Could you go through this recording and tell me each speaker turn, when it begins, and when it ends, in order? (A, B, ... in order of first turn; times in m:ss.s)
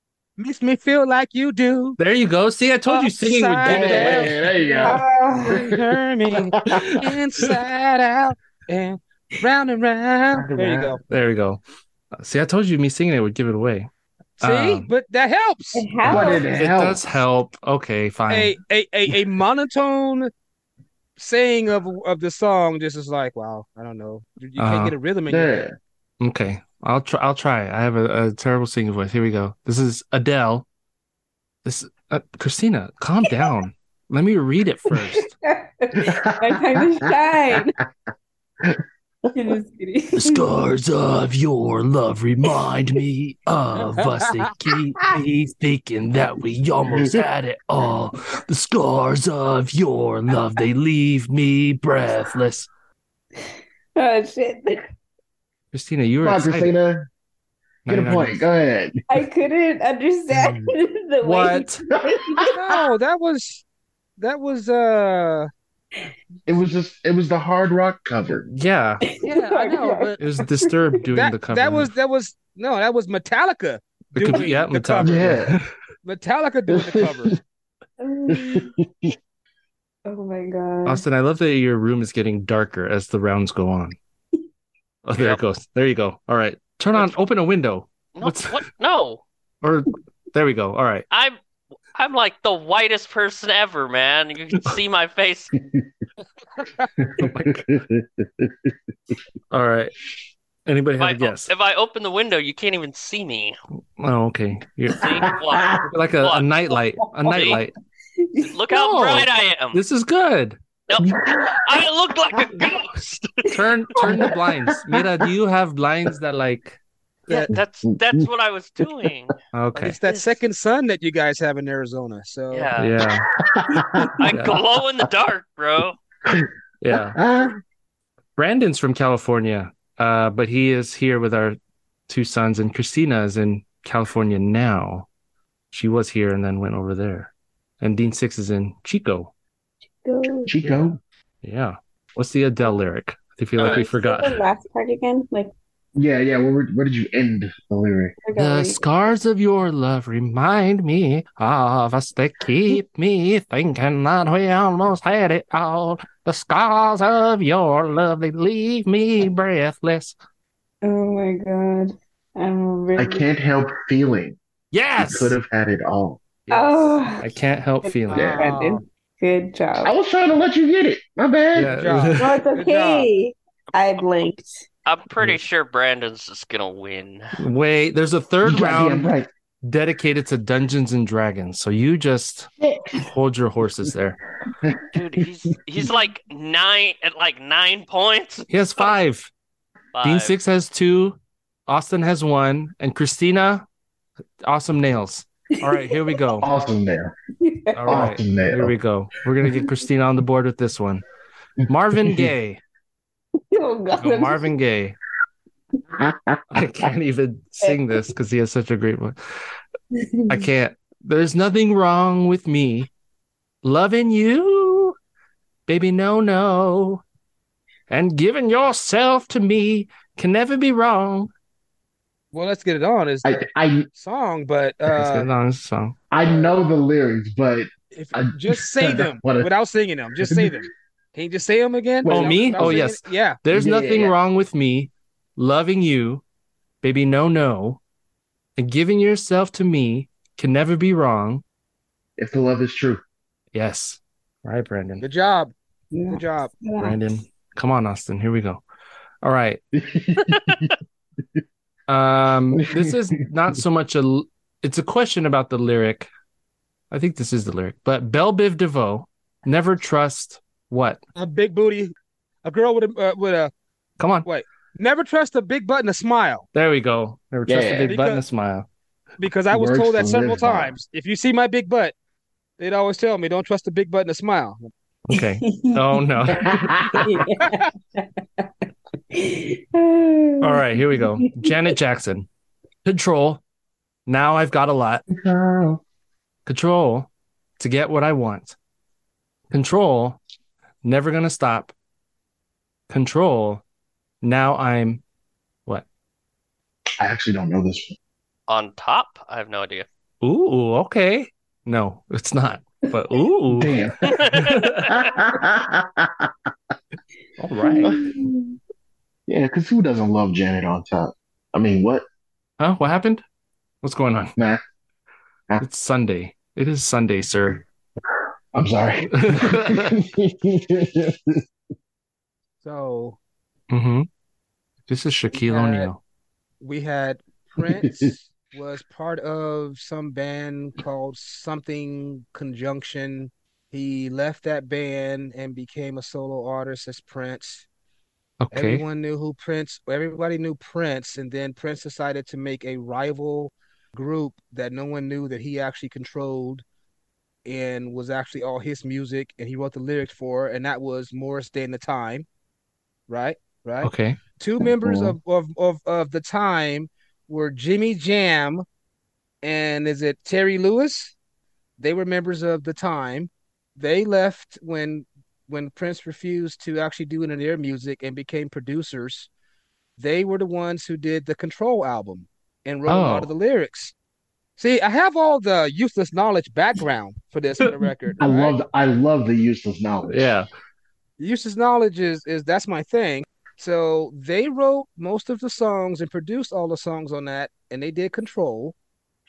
0:00.4-0:02.0 A
0:02.0-0:04.4 B
0:02.9-0:11.0 A
0:03.6-0:07.1 C
0:04.6-0:05.7 D
0:06.7-0:07.6 B
0:10.3-0:11.0 C
0:11.1-0:11.6 B
0:12.2-0:14.9 B
0:14.4-0:15.9 A
0:15.7-0:16.5 D
0:16.0-0:17.2 C
0:16.1-0:18.6 B
0:18.3-0:20.3 A
0:21.2-0:25.7 A
0:24.6-0:25.0 B
0:25.3-0:25.7 C
0:26.2-0:30.7 B
0:31.6-0:35.3 B
0:33.2-0:33.5 D
0:34.9-0:37.8 D
0:36.0-0:37.6 C
0:39.4-0:40.5 D
0:40.2-0:52.7 B
0:43.9-0:44.5 A
0:46.9-0:47.2 C
0:54.0-0:54.8 D
0:55.7-0:56.7 B
0:56.2-0:57.1 C
0:57.9-0:58.4 B
0:57.9-0:59.0 C
0:59.1-1:02.8 D
1:00.3-1:00.7 C
1:01.2-1:01.8 B
1:02.1-1:02.5 C
1:02.5-1:03.6 A
1:04.2-1:05.5 A
1:06.5-1:08.5 C
1:08.5-1:09.0 B
1:09.0-1:11.1 D
1:09.2-1:10.2 A
1:10.2-1:11.9 B
1:11.1-1:15.4 A
1:14.1-1:15.7 B
1:15.0-1:15.5 C
1:16.0-1:17.3 A
1:16.7-1:17.4 C
1:18.0-1:18.7 D
1:18.3-1:19.2 C
1:20.1-1:21.0 D
1:20.9-1:24.0 B
1:25.0-1:28.6 B
1:28.2-1:29.2 E
1:29.6-1:31.0 B
1:31.1-1:31.4 E
1:31.9-1:35.5 E
1:35.6-1:35.9 C
1:36.6-1:36.9 A
1:37.2-1:37.7 B
1:37.2-1:38.7 C
1:39.5-1:39.9 B
1:40.7-1:41.5 B
1:41.0-1:43.6 E
1:44.0-1:45.1 B
1:44.9-1:46.5 E
1:45.2-1:45.8 C
1:45.9-1:47.7 B
1:47.3-1:47.6 E
1:47.3-1:47.6 D
1:48.2-1:48.7 D
1:48.4-1:49.8 E
1:48.7-1:50.6 B
1:50.9-1:53.5 E
1:51.0-1:51.5 C
1:53.1-1:56.8 B
1:53.5-1:54.4 D
1:54.2-1:55.0 C
1:57.3-2:00.4 E
1:57.5-1:58.2 C
1:59.5-2:00.0 B
1:59.8-2:02.8 A
2:02.5-2:02.9 E
2:02.8-2:03.3 B
2:03.5-2:04.2 C
2:04.2-2:06.0 E
2:04.3-2:04.6 B
2:06.3-2:07.5 C
2:06.8-2:07.2 B
2:08.4-2:15.1 B
2:15.7-2:19.3 B
2:20.0-2:20.6 D
2:20.5-2:21.0 C
2:21.4-2:24.4 B
2:23.6-2:25.5 D
2:26.0-2:28.2 C
2:28.2-2:29.1 D
2:28.4-2:40.2 B
2:40.8-2:43.3 D
2:43.0-2:44.4 C
2:44.7-2:45.4 B
2:45.0-2:46.2 C
2:46.5-2:48.4 B
2:46.5-2:49.9 D
2:48.1-2:48.4 C
2:48.1-2:48.8 A
2:49.8-2:51.9 C
2:51.6-2:52.4 B
2:51.7-2:53.1 A
2:52.2-2:54.6 D
2:54.9-2:57.4 E
2:57.4-2:59.1 B
2:58.4-2:59.3 C
2:59.6-3:04.2 B
3:02.6-3:03.0 C
3:04.6-3:05.2 C
3:04.9-3:08.9 E
3:08.5-3:09.3 B
3:09.9-3:10.4 E
3:10.0-3:13.6 B
3:14.4-3:16.5 B
3:15.6-3:16.4 D
3:16.4-3:17.2 C
3:17.4-3:18.0 D
3:17.7-3:21.0 B
3:17.9-3:18.7 C
3:21.7-3:22.6 B
3:22.0-3:22.3 C
3:23.5-3:24.6 D
3:24.0-3:25.0 B
3:26.0-3:26.6 C
3:26.5-3:29.2 B
3:27.6-3:28.1 D
3:30.0-3:30.5 D
3:30.3-3:32.9 B
3:33.6-3:35.0 B
3:35.7-3:37.0 B
3:37.9-3:41.3 B
3:42.3-3:43.4 A
3:43.2-3:43.9 C
3:43.9-3:45.3 A
3:44.9-3:46.0 B
3:46.1-3:49.5 C
3:46.2-3:46.6 A
3:47.9-3:53.4 A
3:50.2-3:50.7 C
3:52.0-3:52.9 C
3:52.1-3:56.2 B
3:53.5-3:54.2 C
3:56.8-3:57.8 B
3:58.6-4:01.4 B
4:02.2-4:03.0 C
4:03.5-4:05.0 B
4:05.0-4:05.5 A
4:05.9-4:07.2 D
4:06.1-4:06.5 A
4:06.8-4:08.6 B
4:09.2-4:09.6 B
4:09.7-4:10.7 C
4:10.3-4:10.6 E
4:11.9-4:16.1 B
4:12.5-4:13.1 C
4:16.9-4:21.0 B
4:21.2-4:21.9 A
4:22.4-4:23.5 A
4:24.0-4:24.3 B
4:24.2-4:26.5 A
4:26.5-4:28.7 B
4:27.5-4:28.0 C
4:27.9-4:28.2 A
4:29.2-4:31.9 A
4:29.5-4:30.8 C
4:32.6-4:34.7 A
4:35.1-4:36.6 B
4:35.1-4:38.1 D
4:36.4-4:37.0 C
4:39.1-4:41.8 D
4:40.4-4:42.3 B
4:42.8-4:43.4 B
4:44.1-4:45.0 B
4:45.1-4:45.8 C
4:46.5-4:48.6 B
4:49.5-4:50.2 B
4:50.8-4:51.7 B
4:52.9-4:53.6 B
4:54.2-4:55.0 B
4:57.0-4:58.0 C
4:58.5-4:59.9 E
5:00.2-5:03.8 B
5:03.5-5:04.0 C
5:04.0-5:04.8 E
5:04.3-5:04.9 B
5:04.9-5:06.3 C
5:07.4-5:08.0 B
5:07.6-5:08.6 D
5:09.3-5:12.0 C
5:12.6-5:13.2 B
5:13.8-5:14.3 B
5:15.6-5:17.6 B
5:18.5-5:21.4 C
5:19.1-5:19.9 B
5:22.6-5:23.2 A
5:23.7-5:24.1 B
5:24.9-5:26.0 B
5:25.3-5:25.9 A
5:26.6-5:37.7 A
5:27.6-5:28.1 C
5:38.4-5:38.8 B
5:38.5-5:46.6 A
5:47.4-5:52.3 A
5:53.1-5:58.6 A
5:53.8-5:54.2 B
5:54.6-5:55.2 C
5:59.4-6:01.1 A
6:01.8-6:09.3 A
6:10.0-6:13.9 A
6:12.9-6:13.3 B
6:14.6-6:18.6 A
6:18.2-6:20.3 C
6:20.1-6:20.5 B
6:21.2-6:28.8 A